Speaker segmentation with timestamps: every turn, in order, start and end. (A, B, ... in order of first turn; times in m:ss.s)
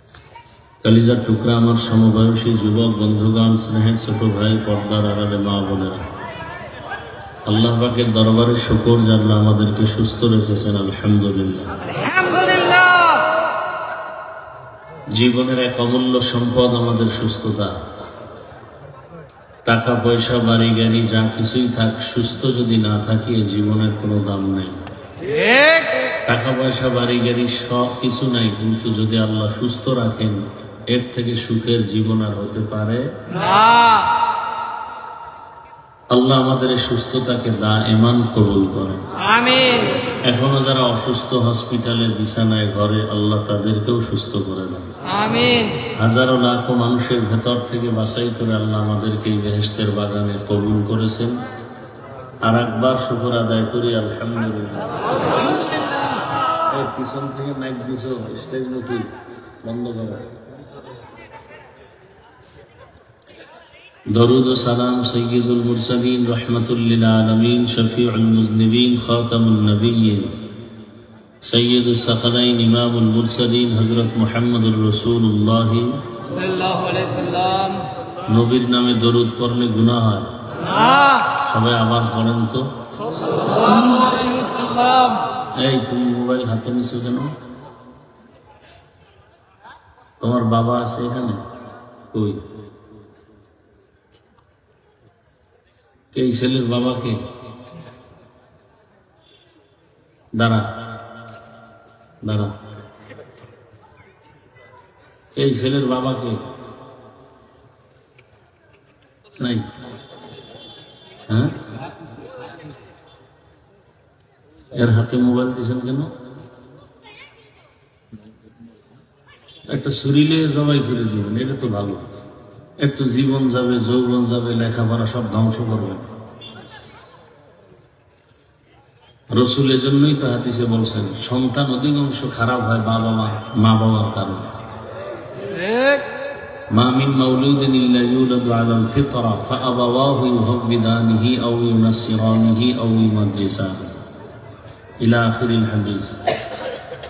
0:00.8-0:06.1 A
0:07.4-0:11.7 A
0:12.0-0:13.2 B
0:15.1-0:17.8 A
0:19.6-0:24.9 A
0:25.3-0:25.9 B
0:26.2-0:33.2 A
0:33.3-0:34.1 B
0:36.1-0:39.0 A
0:39.2-0:40.0 B
0:40.2-0:44.9 A
0:45.0-0:45.9 B
0:46.0-0:51.4 A
0:52.4-0:54.9 A
0:56.7-0:59.1 A
0:59.6-1:00.3 A
1:04.1-1:10.3 A
1:11.4-1:16.0 A
1:16.3-1:17.8 B
1:18.3-1:20.3 A
1:20.7-1:21.2 B
1:21.3-1:22.7 A
1:23.4-1:25.3 B
1:25.5-1:27.3 A
1:30.2-1:31.4 A
1:32.1-1:32.4 A
1:36.1-1:37.2 A
1:40.4-1:40.7 A
1:42.2-1:42.5 A
1:45.3-1:46.4 A
1:49.4-1:49.7 A
1:51.3-1:51.5 A
1:54.8-1:56.1 A
1:59.7-2:02.0 A
2:02.8-2:06.1 A
2:09.3-2:14.5 A
2:15.4-2:16.1 B
2:16.7-2:24.0 A
2:25.0-2:26.2 A